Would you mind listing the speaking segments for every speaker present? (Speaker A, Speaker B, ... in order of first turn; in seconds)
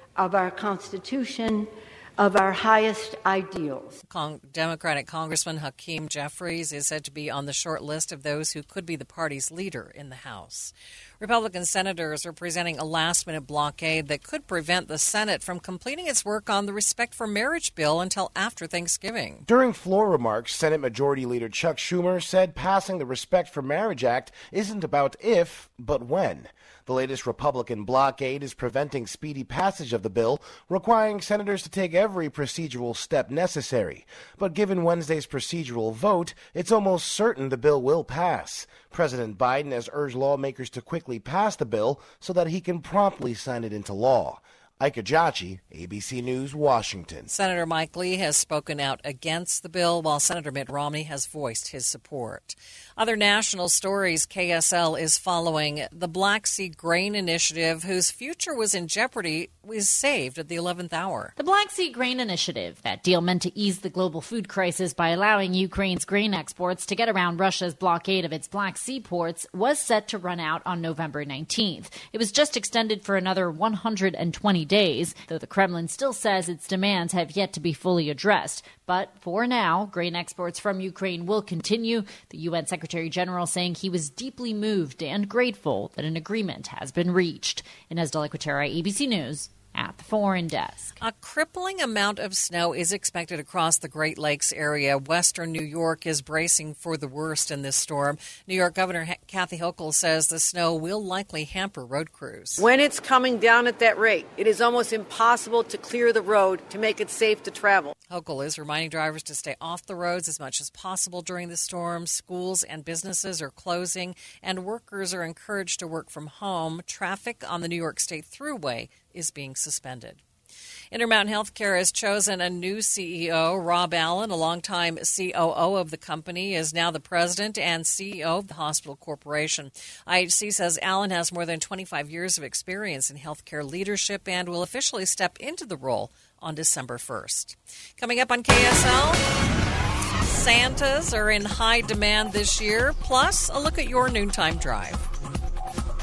Speaker A: 0.2-4.0
Speaker B: 4.1-19.4, 47.3-61.3, 91.0-102.7, 108.1-120.2, 120.9-139.2, 140.2-145.1
Speaker C: 19.5-47.3
Speaker D: 61.4-91.0
Speaker E: 102.6-107.9